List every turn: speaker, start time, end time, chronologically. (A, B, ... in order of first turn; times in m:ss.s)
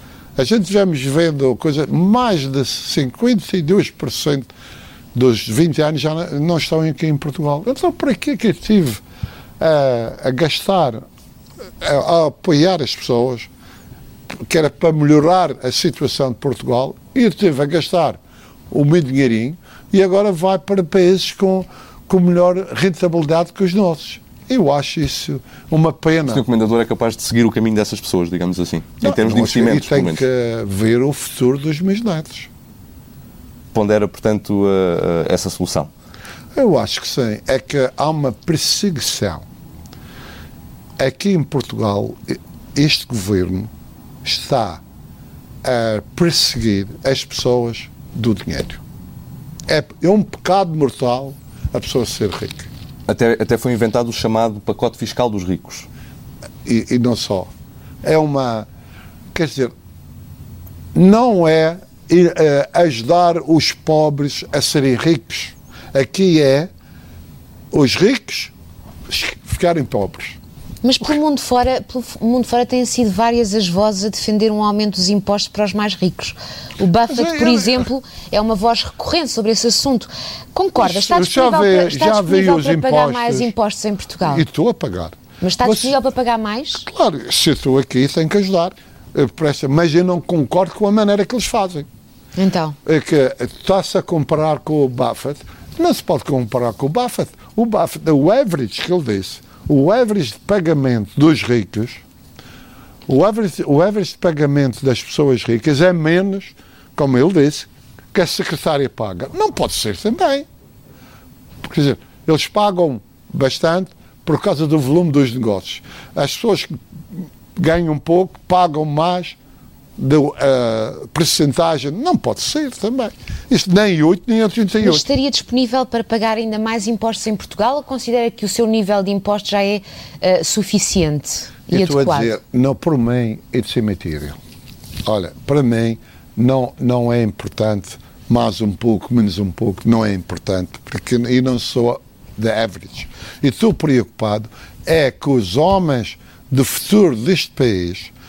0:00.4-0:04.5 A
0:05.1-0:09.0 A
0:09.6-0:11.0 A
0:11.8-0:13.5 A
0:14.3-0:18.2 A
0:18.7-0:26.4 A
0:26.3-0:30.2 B
0:29.0-0:32.5 A
0:33.7-0:35.9 B
0:36.5-0:39.4 A
0:41.0-0:43.7 A
0:44.2-0:44.8 A
0:45.6-0:48.8 A
0:49.7-0:52.7 A
0:53.1-0:55.9 B
0:56.6-0:57.5 A
0:58.0-0:58.7 A
0:59.3-0:59.7 A
1:00.9-1:06.7 A
1:07.7-1:08.5 A
1:09.1-1:10.4 A
1:10.8-1:24.4 C
1:17.1-1:17.9 A
1:20.8-1:23.5 A
1:24.2-1:26.0 A
1:25.4-1:26.8 C
1:26.8-1:31.9 A
1:32.4-1:32.8 C
1:32.8-1:42.0 A
1:43.1-1:50.4 A
1:51.6-1:59.4 A
2:00.0-2:05.0 A
2:04.8-2:12.3 C
2:11.7-2:14.4 A
2:15.0-2:28.1 A